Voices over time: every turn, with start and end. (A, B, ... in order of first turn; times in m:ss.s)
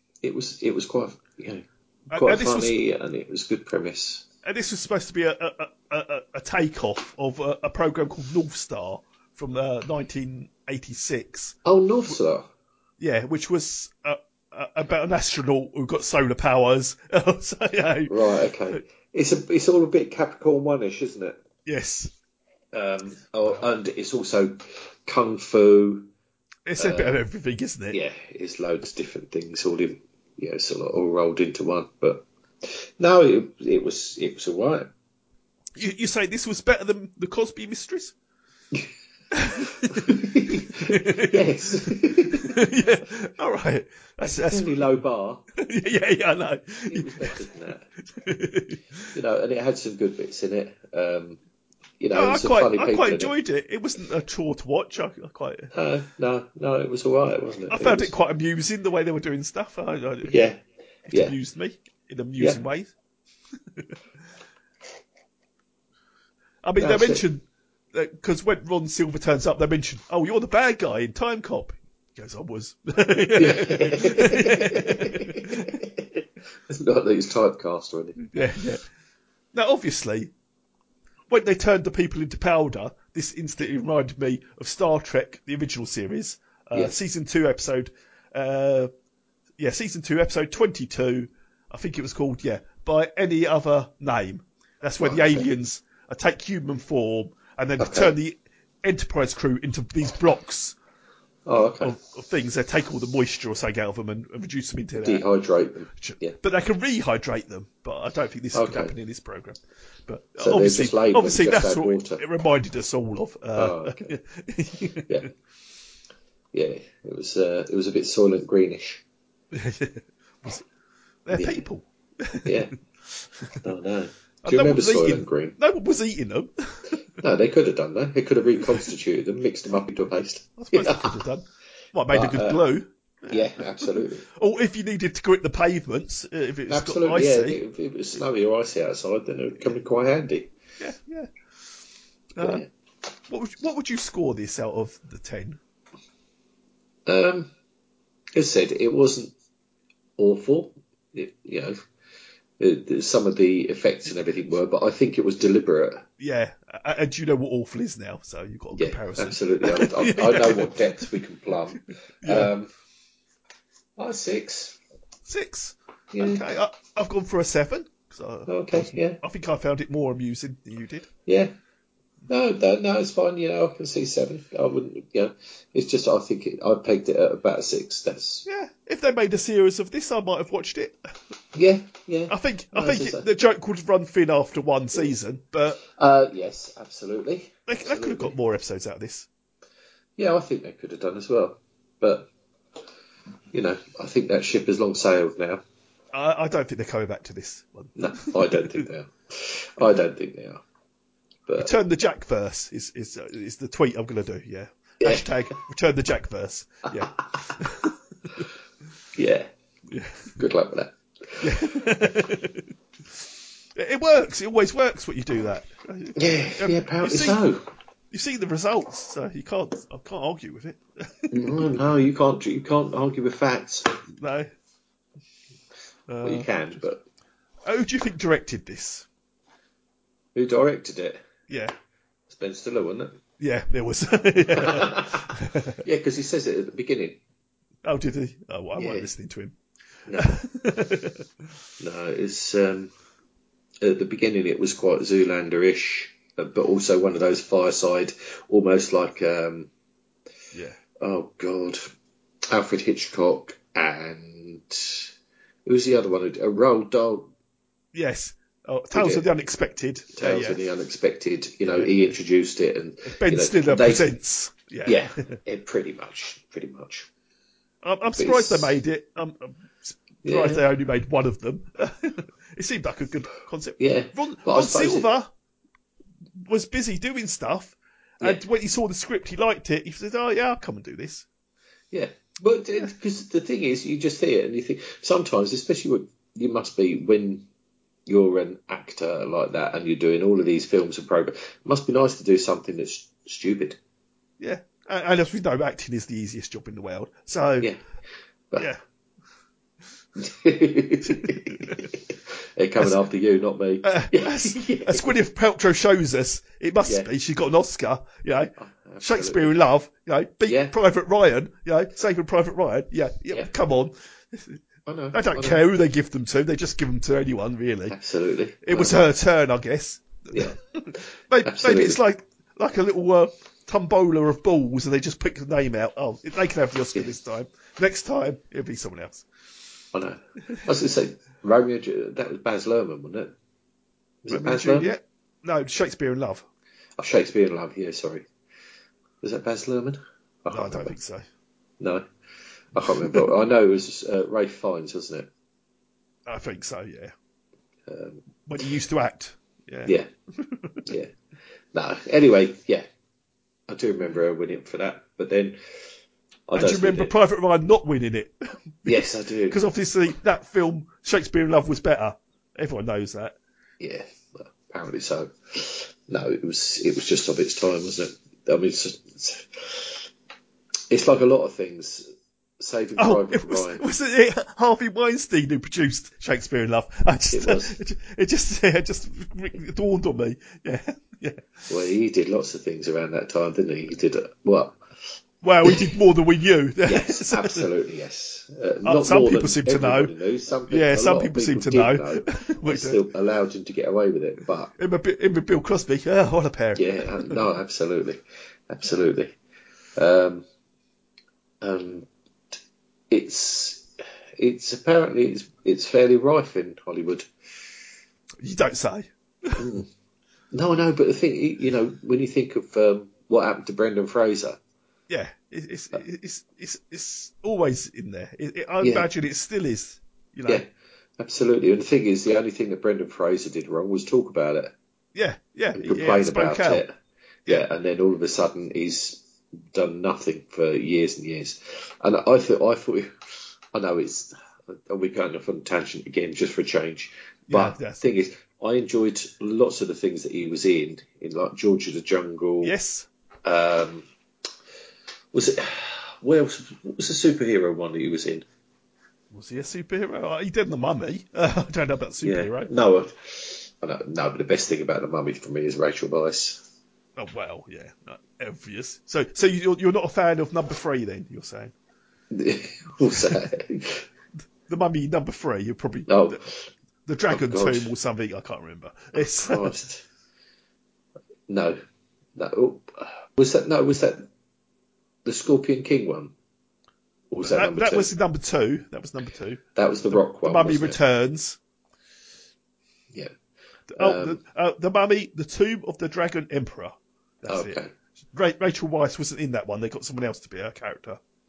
0:00.2-0:04.2 A
0:02.1-0:02.8 B
0:04.4-0:11.6 B
0:11.6-0:12.5 A
0:13.0-0:18.2 B
0:18.1-0:21.4 A
0:21.7-0:22.1 B
0:22.7-0:26.1 A
0:26.7-0:28.0 B
0:26.8-0:27.2 A
0:27.9-0:34.9 A
0:35.8-0:38.1 B
0:39.4-0:40.2 B
0:40.1-0:42.5 A
0:40.8-0:41.4 B
0:42.4-0:44.9 B
0:44.2-0:45.5 A
0:45.6-0:47.3 B
0:46.9-0:47.9 A
0:48.2-0:48.8 B
0:49.1-0:51.4 A
0:52.0-0:53.3 A
0:52.1-0:55.7 B
0:55.7-0:58.1 A
0:57.7-1:00.4 B
1:00.3-1:01.4 A
1:01.1-1:02.9 B
1:06.6-1:15.7 B
1:06.8-1:07.2 A
1:13.4-1:18.2 A
1:18.3-1:18.8 B
1:19.5-1:20.3 B
1:21.3-1:28.9 B
1:29.6-1:40.8 B
1:35.0-1:35.5 A
1:37.8-1:38.1 A
1:41.5-1:42.0 A
1:41.8-1:45.3 B
1:45.0-1:46.4 A
1:46.0-1:55.2 B
1:48.5-1:48.9 A
1:50.4-1:52.2 A
1:53.6-1:54.1 A
1:56.5-1:59.0 A
1:59.5-2:00.6 B
2:01.3-2:02.5 B
2:01.3-2:01.6 A
2:02.4-2:02.7 A
2:03.6-2:05.6 A
2:04.4-2:06.9 B
2:07.2-2:11.3 A
2:10.6-2:13.7 B
2:12.1-2:12.6 A
2:13.3-2:14.3 A
2:14.4-2:17.6 B
2:16.7-2:20.5 A
2:20.8-2:21.3 B
2:22.4-2:22.6 B
2:22.4-2:22.7 A
2:23.3-2:25.6 B
2:27.1-2:27.5 A
2:28.4-2:29.3 A
2:30.2-2:31.8 A
2:32.6-2:36.1 A
2:36.2-2:40.8 B
2:38.8-2:42.7 A
2:42.2-2:42.5 B
2:44.0-2:44.8 A
2:45.3-2:51.1 B
2:46.1-2:46.4 A
2:48.5-2:49.2 A
2:51.3-2:51.5 A
2:52.3-2:58.5 A
2:58.5-3:01.0 B
3:01.6-3:03.3 A
3:02.3-3:05.8 B
3:05.9-3:08.3 A
3:07.7-3:09.3 B
3:10.2-3:12.3 A
3:13.5-3:15.6 A
3:16.1-3:18.6 B
3:18.0-3:20.6 A
3:21.6-3:28.4 B
3:25.0-3:25.3 A
3:29.2-3:29.5 A
3:29.9-3:30.3 B
3:30.4-3:31.5 A
3:31.4-3:32.7 B
3:33.8-3:37.4 B
3:36.2-3:37.6 A
3:38.1-3:41.7 B
3:41.3-3:44.0 A
3:44.1-3:44.5 B
3:46.1-3:46.8 B
3:46.2-3:47.0 A
3:47.6-3:49.0 B
3:50.4-3:51.2 A
3:51.5-3:51.7 B
3:52.3-3:53.2 A
3:53.4-3:55.8 B
3:54.6-3:55.2 A
3:55.8-3:57.2 A
3:57.8-3:59.5 B
3:58.8-3:59.1 A
4:00.1-4:00.4 A
4:00.2-4:01.2 B
4:01.8-4:02.9 A
4:03.8-4:09.7 A
4:11.0-4:11.8 A
4:12.5-4:15.1 A
4:15.7-4:17.3 A
4:17.9-4:20.6 B
4:18.9-4:19.3 A
4:20.2-4:24.1 A
4:21.7-4:22.0 B
4:23.1-4:25.4 B
4:24.9-4:27.1 A
4:27.8-4:35.3 B
4:28.2-4:28.8 A
4:30.2-4:30.6 A
4:33.8-4:35.1 A
4:36.5-4:41.2 B
4:41.9-4:47.4 A
4:48.1-4:53.8 A
4:54.4-4:57.7 B
5:00.2-5:05.2 A
5:03.8-5:14.6 B
5:06.8-5:07.1 A
5:08.6-5:09.6 A
5:10.5-5:10.7 A
5:14.9-5:15.6 A
5:15.1-5:18.0 B
5:17.9-5:19.0 A
5:18.6-5:29.2 B
5:21.4-5:22.0 A
5:29.9-5:33.3 A
5:34.2-5:35.0 A
5:34.3-5:36.4 B
5:37.0-5:38.2 A
5:39.2-5:40.9 A
5:40.5-5:41.2 B
5:41.8-5:42.1 A
5:42.7-5:45.3 A
5:46.3-5:47.1 B
5:47.9-5:48.2 A
5:48.5-5:50.8 B
5:51.7-5:52.9 A
5:53.7-5:55.6 A
5:56.5-5:57.1 A
5:56.6-6:03.4 B
5:58.9-5:59.6 A
6:03.8-6:10.0 A
6:10.9-6:13.8 A
6:13.0-6:21.5 B
6:17.3-6:17.8 A
6:21.7-6:24.8 A
6:25.4-6:27.7 B
6:26.9-6:34.7 A
6:28.8-6:30.1 B
6:30.7-6:33.0 B
6:34.8-6:37.4 B
6:36.8-6:39.3 A
6:40.0-6:40.5 A
6:41.6-6:42.1 A
6:43.1-6:43.9 A
6:44.4-6:47.3 A
6:48.4-6:49.6 B
6:49.6-6:49.9 A
6:50.5-6:54.6 A
6:55.1-7:00.6 B
6:58.8-6:59.1 A
7:01.2-7:04.7 A
7:05.2-7:06.9 B
7:05.8-7:06.9 A
7:07.5-7:13.1 A
7:13.7-7:22.7 A
7:17.5-7:18.1 B
7:22.6-7:23.1 B
7:23.4-7:24.1 A
7:25.3-7:28.5 A
7:29.3-7:32.7 B
7:32.2-7:36.6 A
7:37.2-7:41.7 B
7:42.3-7:44.0 A
7:44.7-7:46.4 B
7:46.1-7:46.7 A
7:47.1-7:49.7 B
7:47.3-7:47.9 A
7:49.2-7:50.0 A
7:51.5-7:51.8 A
7:52.4-7:54.3 A
7:55.2-7:56.3 A
7:57.3-7:58.1 A
7:57.4-8:01.6 B
7:59.8-8:01.0 A
8:03.9-8:11.2 B
8:04.0-8:04.4 A
8:07.5-8:07.9 A